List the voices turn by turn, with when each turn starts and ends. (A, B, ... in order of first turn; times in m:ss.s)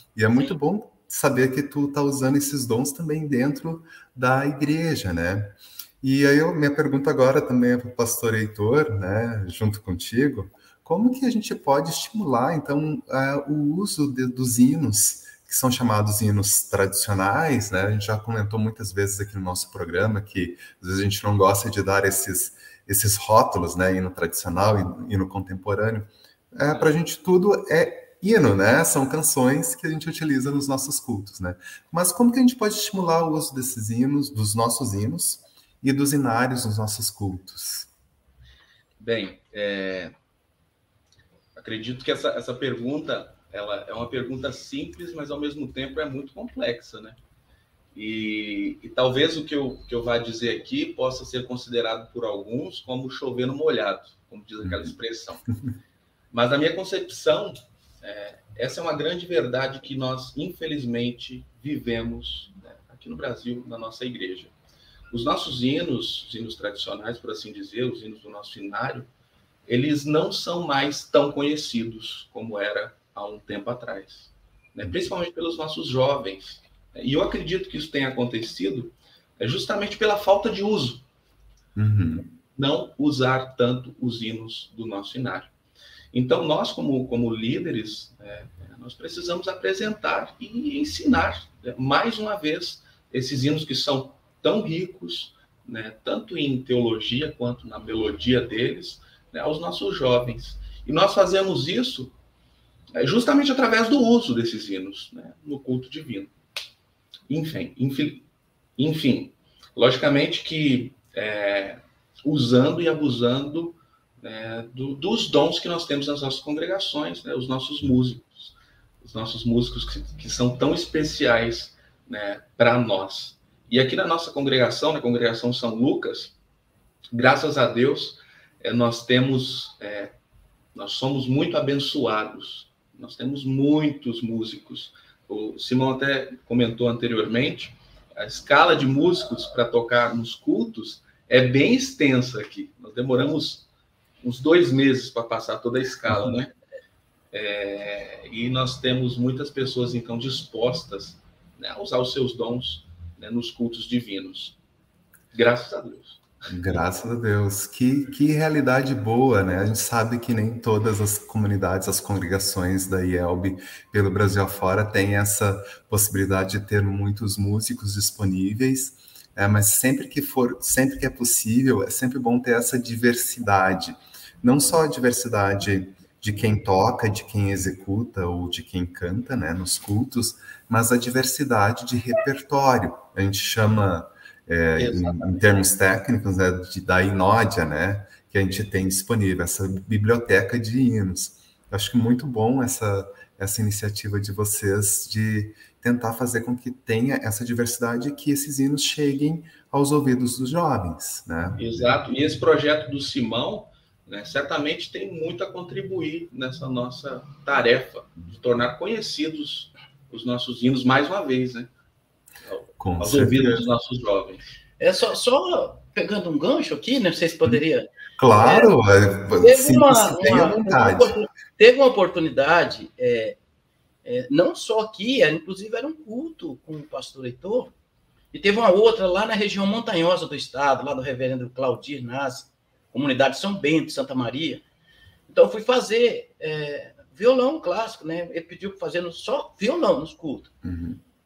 0:00.1-0:37.9 A
0:39.0-0:40.1 B
0:41.6-0:47.2 B
0:47.9-0:55.4 B
0:54.6-0:55.0 A
0:56.3-1:04.5 B
1:05.1-1:09.1 B
1:09.7-1:21.0 B
1:21.8-1:22.3 A
1:22.5-1:25.5 B
1:26.1-1:42.1 B
1:42.9-1:46.3 B
1:47.3-1:48.2 B
1:48.8-2:06.4 B
2:07.1-2:10.1 B
2:10.7-2:23.7 B
2:24.2-2:26.5 B
2:27.3-2:34.6 B
2:35.3-2:36.2 B
2:36.5-3:21.9 A
3:04.8-3:05.4 B
3:21.6-3:31.7 B
3:32.4-3:34.4 B
3:32.8-3:33.7 A
3:34.8-3:37.9 C
3:38.2-3:41.1 A
3:38.4-3:38.7 C
3:39.4-3:43.4 C
3:44.0-3:47.7 C
3:48.3-3:54.6 C
3:55.3-4:00.5 C
4:00.6-4:01.0 A